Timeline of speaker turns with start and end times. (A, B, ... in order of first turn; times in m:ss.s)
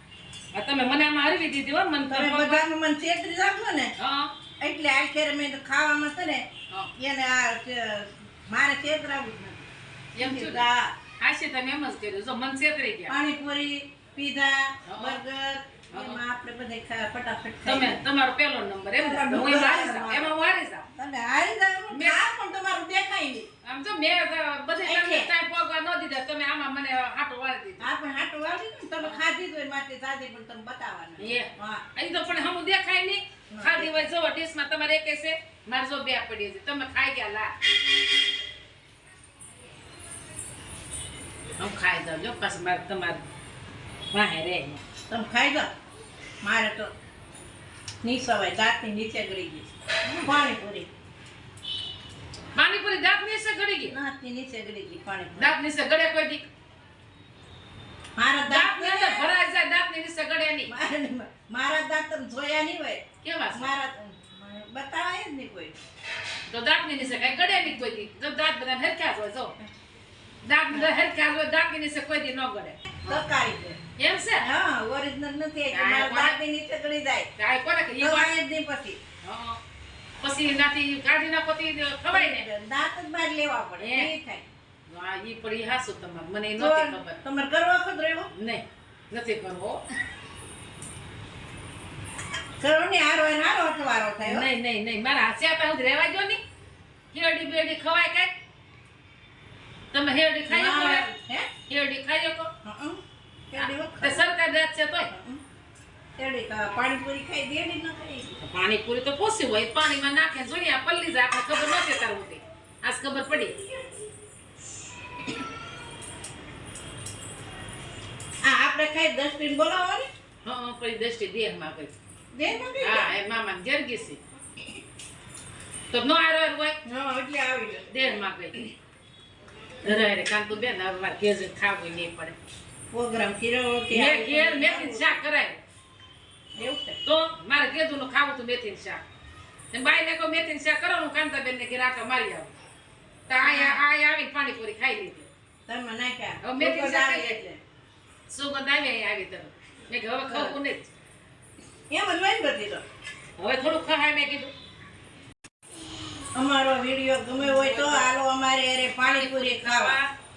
0:00.5-0:02.6 A
0:02.1-0:03.9 B
0:04.0-0:04.3 A
0:04.6-0:10.9 B
0:10.2-0:10.7 A
0:11.2-0:13.1 A
0:13.1-0:18.0 B
0:14.9-0:15.2 A
0:15.9-0:16.2 A
0:17.6-0:20.9 A
0:19.0-0:20.3 B
0:20.9-0:23.5 B
0:21.9-0:22.2 A
0:23.6-0:27.9 A
0:24.8-0:25.3 B
0:27.8-0:31.8 B
0:31.2-0:37.5 A
0:33.5-0:34.1 B
0:41.6-0:43.2 A
0:44.1-0:44.8 A
0:45.1-0:45.7 B
0:46.4-0:46.9 B
0:48.0-0:49.7 B
0:50.2-0:50.9 B
0:52.5-0:53.9 A
0:53.9-0:55.5 B
0:55.4-0:56.4 A
0:58.2-0:59.3 B
0:58.5-1:00.7 A
1:00.7-1:05.7 B
1:03.2-1:03.7 A
1:06.5-1:09.5 A
1:10.4-1:13.2 A
1:13.0-1:13.8 B
1:14.0-1:14.5 A
1:14.4-1:17.3 B
1:15.7-1:16.4 A
1:17.4-1:18.3 A
1:18.0-1:19.0 B
1:19.2-1:19.6 A
1:20.2-1:22.5 A
1:22.1-1:24.4 B
1:23.8-1:24.1 A
1:24.9-1:27.2 A
1:26.6-1:28.3 B
1:28.3-1:29.8 A
1:32.6-1:34.5 B
1:34.2-1:36.4 A
1:37.1-1:38.3 A
1:39.9-1:41.1 A
1:40.5-1:41.5 B
1:41.7-1:42.5 A
1:42.6-1:43.0 B
1:43.5-1:44.3 B
1:43.6-1:45.1 A
1:45.1-1:45.4 B
1:46.2-1:48.4 B
1:48.4-1:53.5 A
1:58.4-2:00.1 B
2:00.4-2:01.9 A
2:02.3-2:03.1 B
2:02.8-2:04.2 A
2:05.9-2:06.8 A
2:06.8-2:08.2 B
2:07.9-2:08.7 A
2:09.8-2:12.4 A
2:12.9-2:15.2 B
2:13.9-2:15.6 A
2:16.6-2:17.0 B
2:17.0-2:19.0 A
2:19.7-2:22.5 A
2:23.3-2:25.3 A
2:23.4-2:23.8 B
2:25.7-2:27.6 B
2:26.4-2:27.4 A
2:28.3-2:30.9 A
2:30.3-2:30.6 B
2:31.9-2:32.8 B
2:33.4-2:34.5 A
2:36.3-2:40.0 B
2:37.4-2:38.1 A
2:39.0-2:40.1 A